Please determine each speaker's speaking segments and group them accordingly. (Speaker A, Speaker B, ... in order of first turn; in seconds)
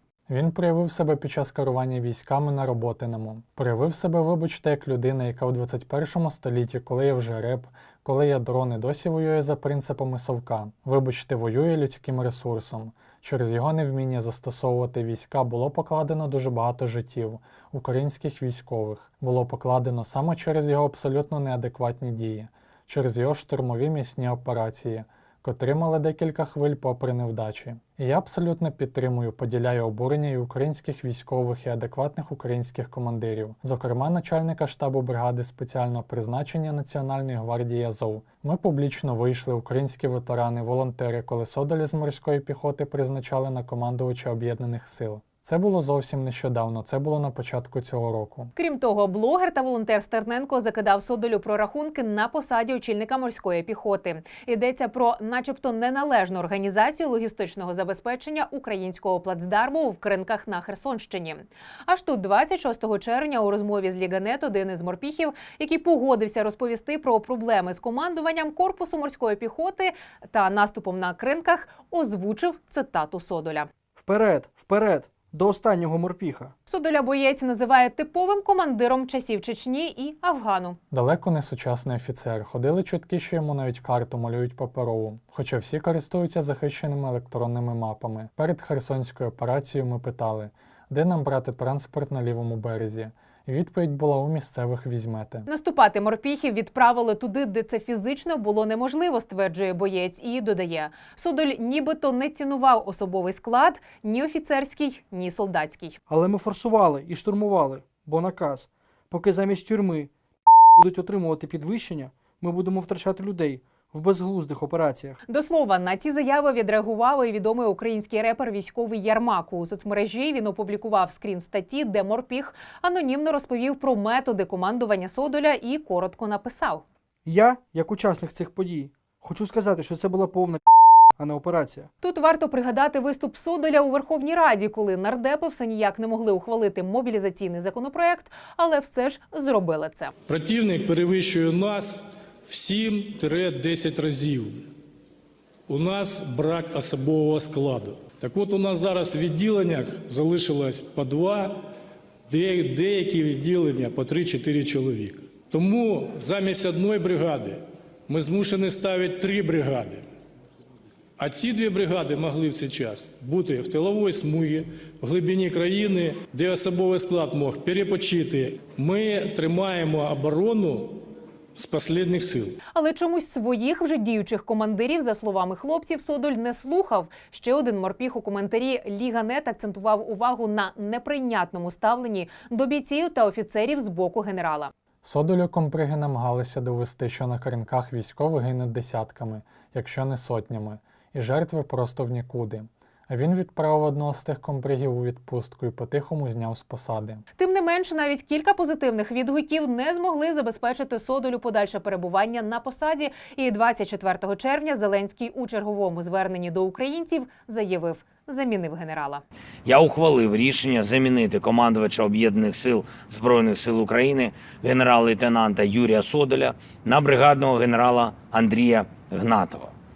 Speaker A: 0.3-48.5, 80.9-95.5, 185.0-197.2
Speaker B: 48.6-73.7, 76.7-80.8, 95.5-106.0, 115.3-126.8, 132.0-140.1, 172.7-184.7, 197.4-209.2
Speaker C: 74.0-76.5, 106.1-110.1, 110.8-115.2, 127.2-130.6, 131.2-131.9
Speaker D: 140.3-144.6, 145.7-151.6, 152.3-160.0, 161.2-171.0, 171.6-172.6
Speaker E: 209.7-219.7